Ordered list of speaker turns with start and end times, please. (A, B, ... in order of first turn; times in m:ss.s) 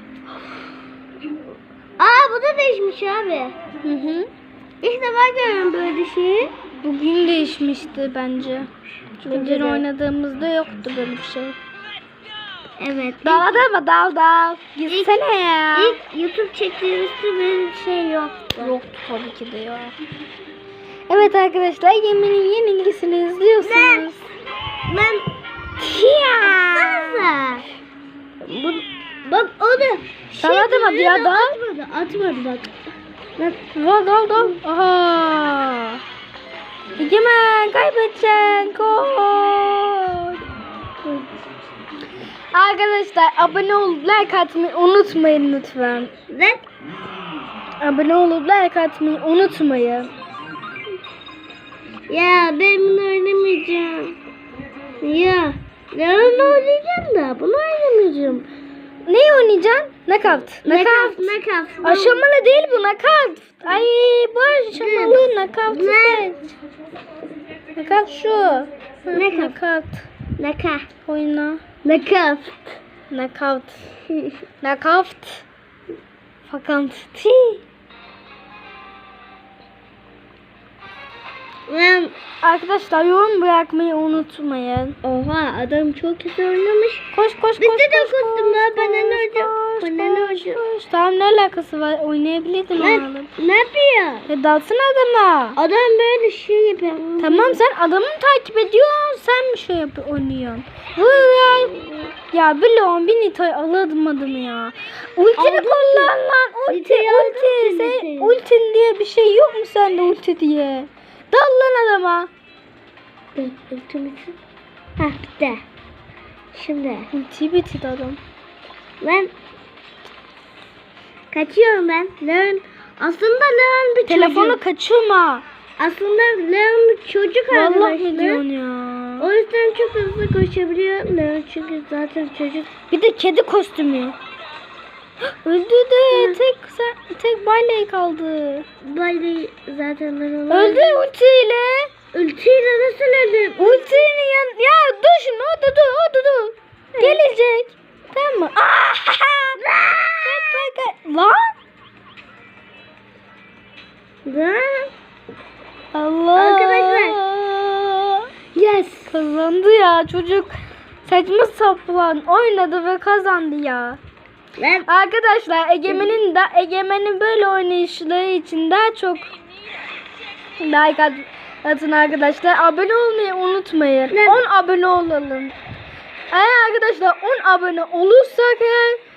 0:02.0-0:03.6 A
0:03.8-0:04.3 B
0:04.8-0:06.5 A
0:06.8-0:08.7 B
0:09.2-0:09.8 A
0:09.3-0:11.6 B
0:12.8-0:13.6 A
0:13.2-0:16.0 B
0:14.9-0:15.2 A
0:15.7-0:18.7 A
0:18.6-0:19.9 B
0:21.1-0:24.3 B
0:23.6-0:24.1 A
0:24.9-0:25.2 A
0:25.8-0:27.2 B
0:26.3-0:27.6 A
0:28.4-0:32.8 A
0:30.4-0:31.6 B
0:33.7-0:36.0 B
0:37.0-0:40.4 B
0:42.5-0:46.1 B
0:46.3-0:46.6 A
0:47.8-0:50.1 B
0:52.1-0:54.2 A
0:55.0-0:58.5 A
0:59.1-1:01.3 B
1:00.6-1:02.2 A
1:01.8-1:06.4 B
1:04.7-1:06.3 A
1:07.7-1:10.0 B
1:09.1-1:09.6 A
1:10.4-1:10.8 A
1:11.0-1:11.6 B
1:11.8-1:12.6 A
1:13.1-1:13.8 B
1:14.6-1:15.4 B
1:16.4-1:17.6 B
1:21.7-1:22.1 A
1:22.4-1:25.0 B
1:25.0-1:27.1 A
1:27.1-1:33.3 B
1:27.6-1:30.6 A
1:32.8-1:34.3 A
1:34.3-1:35.6 B
1:35.6-1:37.6 A
1:37.2-1:41.7 B
1:41.5-1:42.1 A
1:42.3-1:52.3 B
1:45.4-1:46.1 A
1:46.7-1:48.4 A
1:53.3-1:54.4 A
1:55.0-1:55.6 A
1:56.5-1:57.1 A
1:57.1-1:58.2 B
1:59.0-1:59.3 A
2:01.3-2:04.6 A
2:04.1-2:05.4 B
2:05.8-2:08.4 A
2:07.5-2:09.3 B
2:09.2-2:12.7 A
2:12.9-2:14.2 B
2:15.4-2:18.6 B
2:16.1-2:16.4 A
2:18.8-2:21.0 A
2:20.5-2:21.9 B
2:22.1-2:24.0 A
2:23.6-2:29.6 B
2:26.9-2:27.2 A
2:29.6-2:30.6 A
2:30.2-2:31.5 B
2:34.2-2:34.9 A
2:35.9-2:38.2 B
2:36.3-2:37.2 A
2:38.5-2:39.2 A
2:39.1-2:44.0 B
2:44.6-2:44.9 A
2:44.9-2:49.3 B
2:50.6-2:55.5 B
2:54.1-2:54.4 A
2:56.3-2:59.0 B